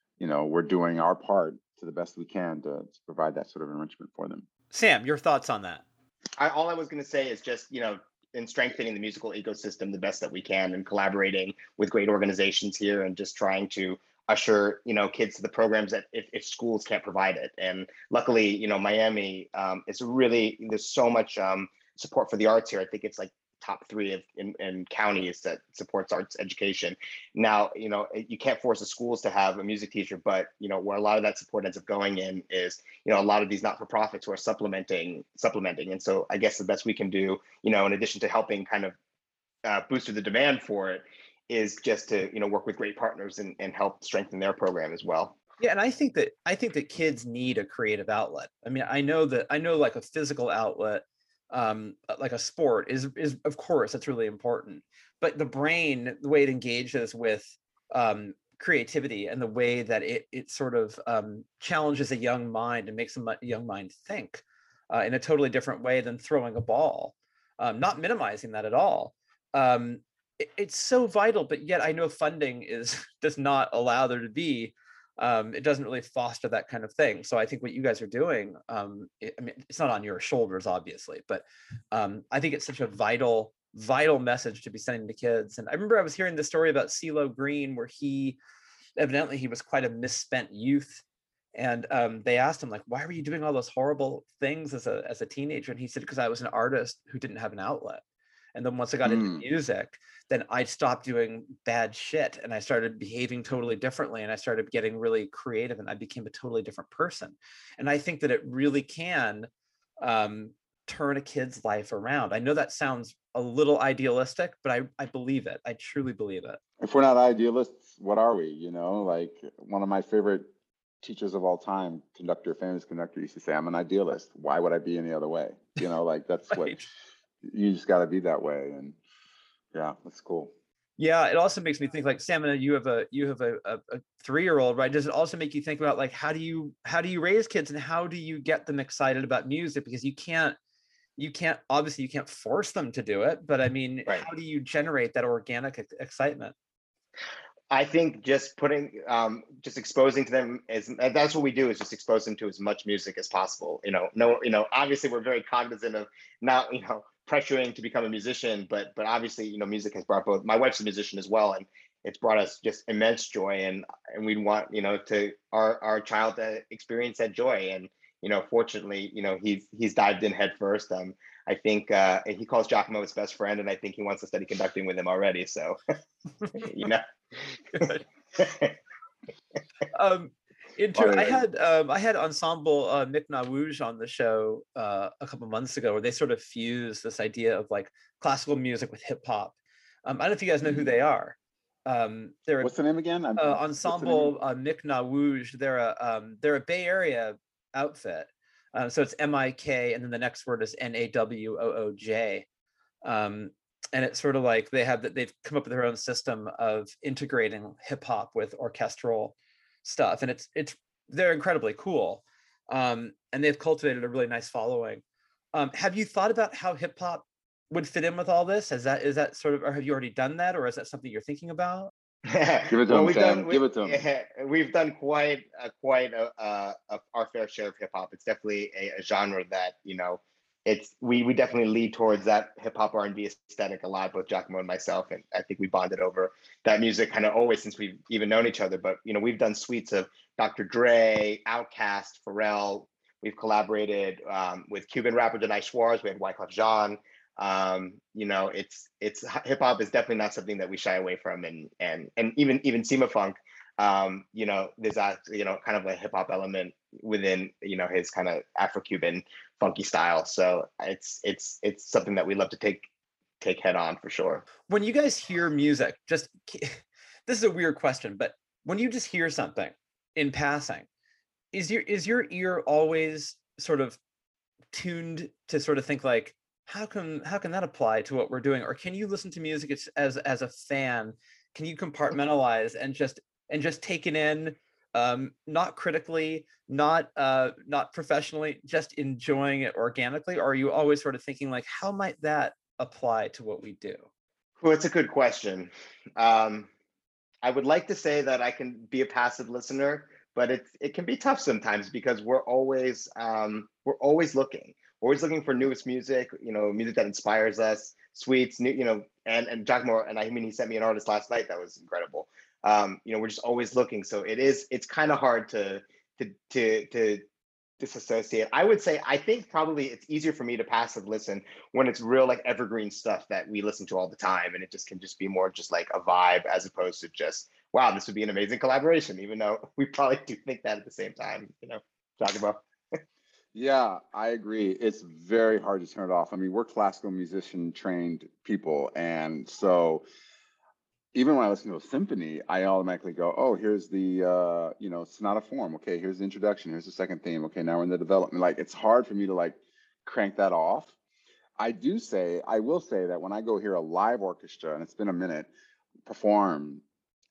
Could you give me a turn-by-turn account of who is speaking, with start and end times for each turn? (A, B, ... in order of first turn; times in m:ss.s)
0:00.2-0:04.5 A
0:04.7-0:05.8 B
0:06.4-0:39.0 C
0:39.6-0:45.4 C
0:45.6-1:28.4 B
1:29.0-1:31.0 B
1:31.5-1:38.0 B
1:38.6-1:49.5 B
1:39.0-1:39.4 A
1:50.0-1:56.6 B
1:56.8-2:00.5 A
2:01.0-2:06.8 A
2:06.5-2:06.8 B
2:07.4-2:09.0 A
2:09.7-2:10.5 A
2:11.0-2:20.6 B
2:21.2-2:26.6 B
2:27.7-2:55.8 C
2:56.5-2:57.0 C
2:57.8-2:58.0 B
2:57.8-2:58.8 C
2:59.9-3:12.7 B
3:01.0-3:01.4 A
3:12.6-3:14.4 A
3:13.4-3:22.5 B
3:23.0-3:35.0 B
3:35.5-3:41.9 B
3:42.3-4:22.9 C
3:42.7-3:44.0 A
4:23.4-4:24.4 C
4:24.7-4:30.9 B
4:31.5-4:34.0 B
4:34.7-4:54.1 B
4:54.6-4:56.7 C
4:57.4-5:17.2 C
5:17.8-5:32.6 C
5:33.5-5:40.0 A
5:41.1-5:51.0 A
5:51.6-5:55.5 A
5:56.1-5:56.8 A